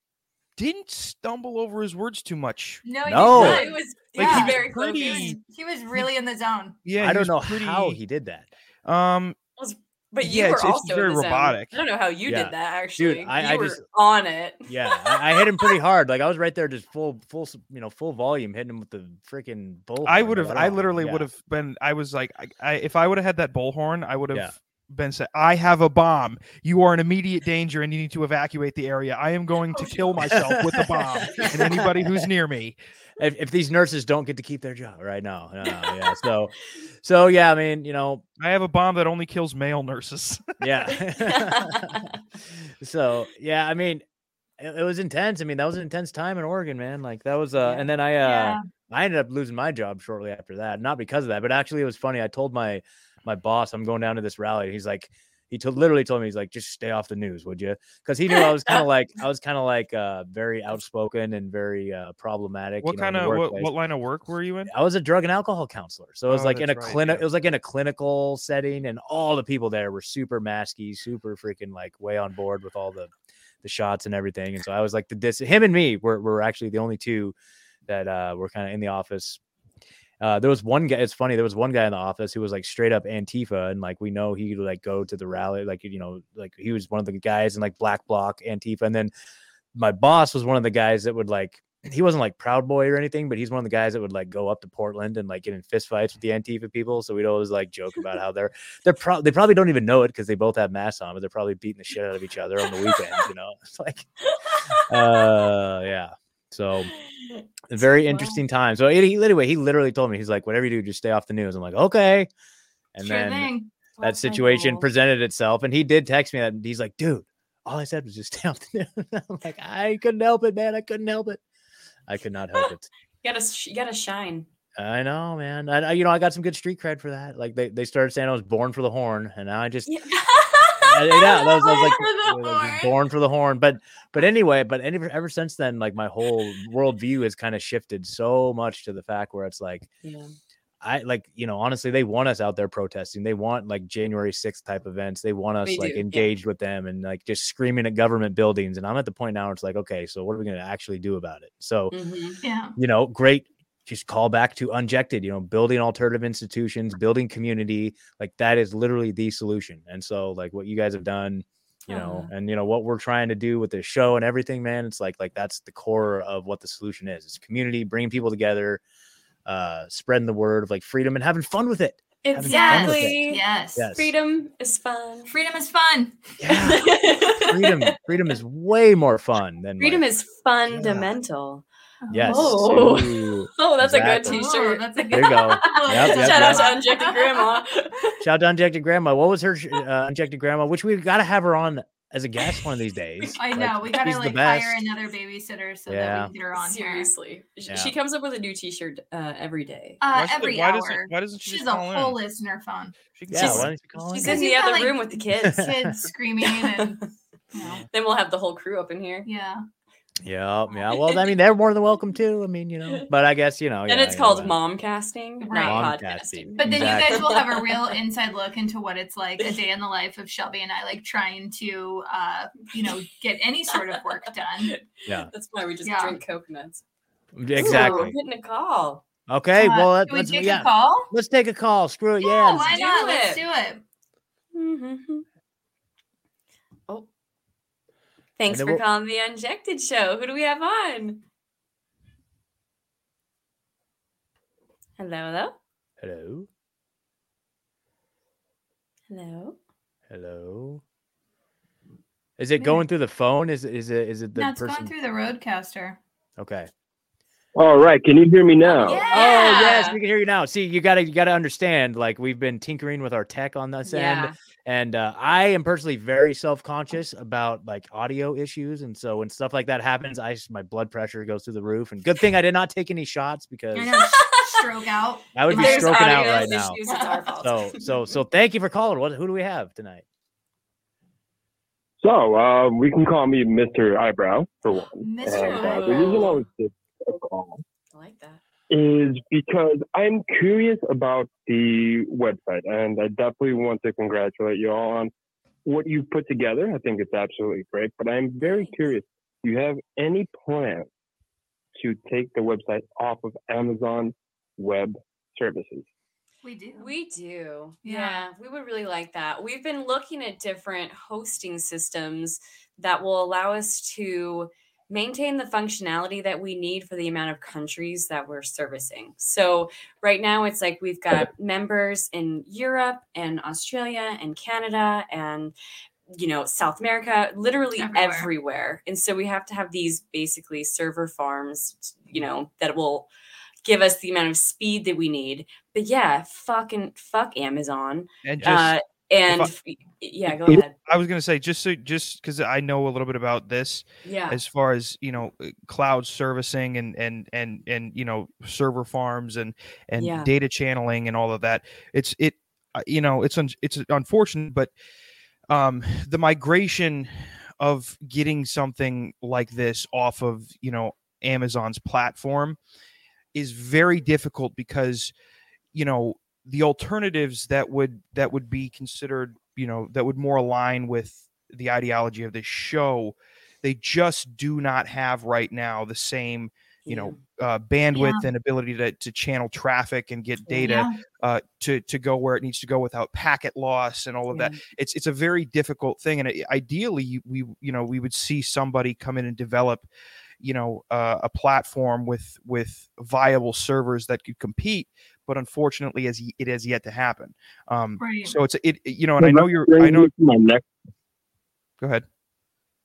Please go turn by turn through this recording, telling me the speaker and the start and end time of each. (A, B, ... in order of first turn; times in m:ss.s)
0:00.6-0:02.8 A
0:02.8-0:04.6 B
0:03.0-0:03.6 C
0:03.3-0:05.4 D
0:04.2-0:05.4 A
0:05.1-0:06.8 B
0:06.8-0:08.0 A
0:07.0-0:08.5 C
0:08.9-0:09.4 A
0:09.6-0:15.4 D
0:10.2-0:11.8 A
0:12.3-0:13.8 C
0:14.7-0:21.3 C
0:20.0-0:32.8 A
0:30.2-0:32.3 C
0:33.2-0:38.2 C
0:35.6-0:36.2 D
0:38.4-0:40.7 A
0:40.6-0:42.0 C
0:41.3-0:42.1 D
0:42.8-0:44.0 C
0:44.6-1:03.7 C
0:47.6-0:47.9 D
0:48.2-0:48.6 B
1:02.8-1:04.7 A
1:04.7-1:13.1 C
1:06.3-1:07.2 A
1:13.6-1:17.4 C
1:17.9-1:19.4 C
1:20.2-1:29.1 C
1:29.8-1:44.1 C
1:44.9-1:46.9 C
1:47.0-1:48.4 D
1:47.7-1:52.3 C
1:53.0-2:01.4 C
1:53.0-1:53.9 B
1:54.0-1:54.8 D
2:02.1-2:02.9 C
2:03.2-2:04.5 D
2:04.8-2:09.9 C
2:09.9-2:12.9 D
2:10.8-2:19.9 C
2:20.0-2:20.3 D
2:20.8-2:31.9 C
2:25.6-2:26.3 D
2:31.9-2:32.4 D
2:32.4-2:32.7 B
2:32.8-2:48.8 C
2:41.9-2:42.3 D
2:49.5-2:53.2 C
2:52.2-2:53.4 D
2:52.4-2:53.9 B
2:53.8-2:54.1 C
2:53.9-2:55.3 D
2:55.3-2:56.4 B
2:56.4-3:00.1 C
2:56.6-2:57.9 D
2:59.8-3:01.6 D
3:00.7-3:01.1 C
3:02.0-3:02.6 B
3:02.1-3:04.4 C
3:02.2-3:08.2 D
3:04.3-3:07.6 B
3:05.1-3:06.7 C
3:08.2-3:14.9 C
3:13.4-3:17.1 B
3:15.9-3:16.3 C
3:16.6-3:20.0 D
3:20.0-3:22.9 B
3:20.1-3:22.2 A
3:23.2-3:23.7 A
3:23.3-3:24.4 C
3:23.3-3:25.7 D
3:24.2-3:27.0 B
3:25.4-3:26.0 C
3:26.4-3:26.8 D
3:27.5-3:27.8 B
3:27.8-3:29.3 D
3:29.2-3:29.6 B
3:30.2-3:34.6 C
3:33.9-3:37.9 D
3:35.4-3:35.9 B
3:35.6-3:37.3 C
3:36.6-3:44.7 B
3:42.7-3:43.0 D
3:43.7-3:44.0 D
3:44.7-3:46.8 D
3:45.8-3:46.2 B
3:47.3-3:48.2 C
3:47.6-3:49.0 D
3:47.6-3:47.9 B
3:49.3-3:52.7 C
3:49.6-3:51.1 B
3:52.2-3:53.8 B
3:52.6-3:53.4 D
3:54.5-3:55.2 D
3:58.4-4:01.2 D
3:58.5-3:58.8 C
4:05.0-4:05.6 D
4:06.0-4:06.5 C
4:09.1-4:09.6 D
4:10.1-4:10.8 C
4:12.4-4:14.9 C
4:12.6-4:12.8 B
4:14.4-4:16.0 B
4:16.4-4:16.7 C
4:17.6-4:19.0 E
4:18.7-4:20.0 D
4:19.1-4:34.0 C
4:23.8-4:24.3 D
4:33.7-4:37.2 B
4:35.4-4:36.8 C
4:35.5-4:37.9 D
4:37.4-4:40.0 C
4:42.0-4:47.6 E
4:44.7-4:46.5 D
4:45.0-4:46.3 B
4:47.9-4:48.4 D
4:48.7-4:55.1 E
4:55.7-5:00.9 E
4:58.4-4:58.8 D
5:01.8-5:05.9 E
5:06.4-5:06.9 B
5:06.8-5:25.5 D
5:07.8-5:08.2 B
5:26.1-5:33.1 D
5:27.8-5:28.3 B
5:33.6-5:40.7 D
5:38.2-5:38.8 A
5:39.3-5:39.5 A
5:40.9-5:54.7 A
5:44.0-5:44.4 D
5:50.0-5:50.3 D
5:55.5-6:02.6 A
6:03.3-6:05.1 A
6:05.7-6:29.9 A
6:16.9-6:17.2 D
6:17.9-6:18.3 B
6:20.5-6:20.7 D
6:20.6-6:21.0 B
6:24.3-6:24.6 D
6:30.4-6:40.1 A
6:38.0-6:38.4 B
6:39.2-6:40.6 E